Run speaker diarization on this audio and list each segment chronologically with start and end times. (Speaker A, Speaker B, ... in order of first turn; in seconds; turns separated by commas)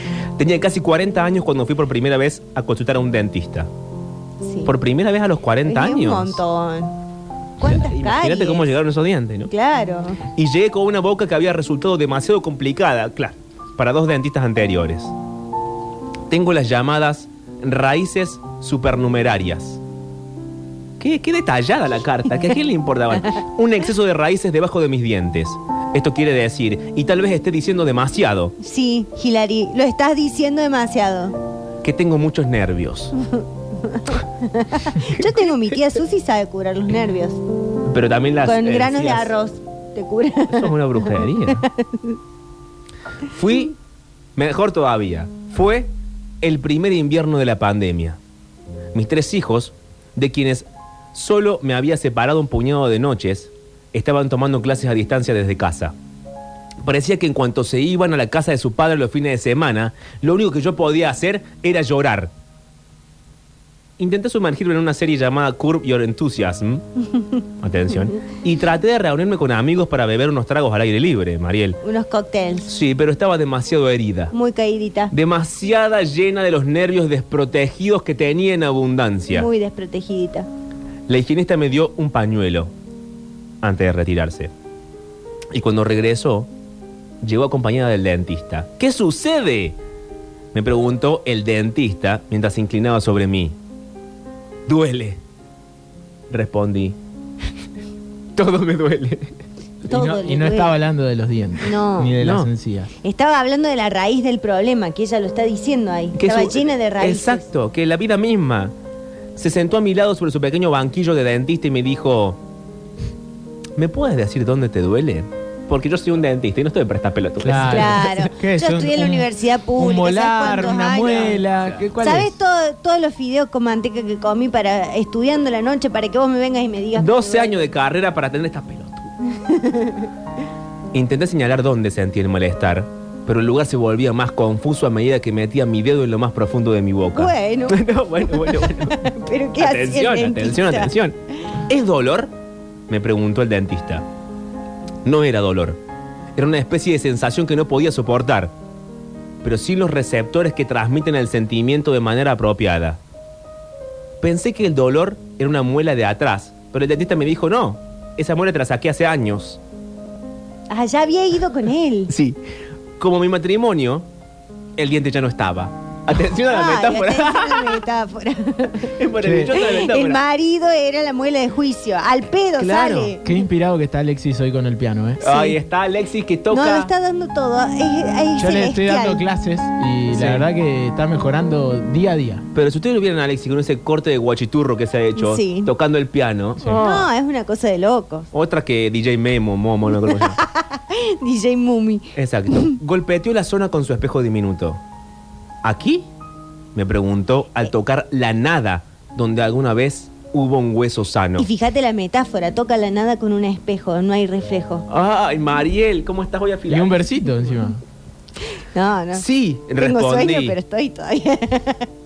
Speaker A: 0.4-3.7, Speaker B: 4.4-4.7, Speaker A: 4.6-6.4, Speaker B: 5.6-6.9, Speaker B: 7.6-8.8, Speaker A: 7.7-9.5, Speaker B: 9.5-10.2, Speaker A: 10.3-15.1, Speaker A: 16.3-19.8, Speaker A: 21.0-28.5, Speaker B: 28.6-31.4, Speaker A: 31.8-33.1, Speaker B: 33.3-37.4, Speaker A: 37.9-39.3, Speaker B: 38.4-42.2, Speaker A: 40.5-41.6, Speaker A: 43.3-43.8, Speaker A: 44.4-48.2, Speaker A: 48.9-55.9, Speaker A: 56.8-62.3, Speaker A: 64.0-66.8, Speaker A: 67.6-71.8, Speaker B: 71.8-72.7, Speaker A: 72.7-74.3, Speaker B: 74.3-75.1, Speaker A: 75.1-79.5, Speaker B: 79.3-80.5, Speaker A: 81.1-82.7, Speaker A: 83.6-84.5, Speaker A: 85.5-86.5, Speaker A: 87.2-89.8, Speaker A: 90.5-93.5, Speaker A: 94.7-95.2, Speaker A: 96.3-97.0, Speaker A: 98.3-99.4, Speaker B: 99.8-100.8, Speaker C: 99.9-102.9, Speaker B: 101.6-102.2, Speaker A: 102.2-102.5, Speaker B: 103.0-107.5, Speaker A: 106.1-108.7, Speaker A: 109.3-112.4, Speaker A: 113.8-118.3, Speaker C: 117.4-122.3, Speaker B: 117.6-127.6, Speaker A: 121.5-121.9, Speaker A: 127.0-129.1, Speaker B: 129.4-130.1, Speaker A: 130.9-141.1, Speaker B: 137.1-140.9, Speaker A: 141.7-142.3, Speaker A: 142.9-144.0, Speaker A: 145.0-145.8, Speaker A: 146.3-148.5, Speaker A: 149.4-153.0, Speaker A: 154.2-159.6, Speaker B: 160.7-162.1, Speaker A: 162.1-162.4, Speaker A: 163.0-164.1, Speaker A: 164.8-167.8, Speaker B: 166.5-168.9, Speaker A: 168.9-170.2, Speaker C: 169.2-169.5, Speaker B: 169.5-173.4, Speaker A: 172.6-173.1, Speaker C: 173.2-175.2, Speaker B: 175.2-175.6, Speaker A: 175.2-176.9, Speaker B: 176.5-179.2, Speaker C: 178.4-182.5, Speaker A: 180.1-180.5, Speaker A: 182.5-187.1, Speaker B: 185.2-185.7, Speaker C: 186.6-186.8, Speaker B: 186.6-188.3, Speaker A: 188.3-190.4, Speaker B: 190.0-192.8, Speaker A: 192.1-194.8, Speaker A: 195.6-196.1, Speaker A: 196.7-201.5, Speaker B: 201.4-204.8, Speaker A: 204.9-207.0, Speaker C: 206.7-207.8, Speaker B: 208.7-209.2, Speaker A: 209.1-210.6, Speaker B: 209.8-211.9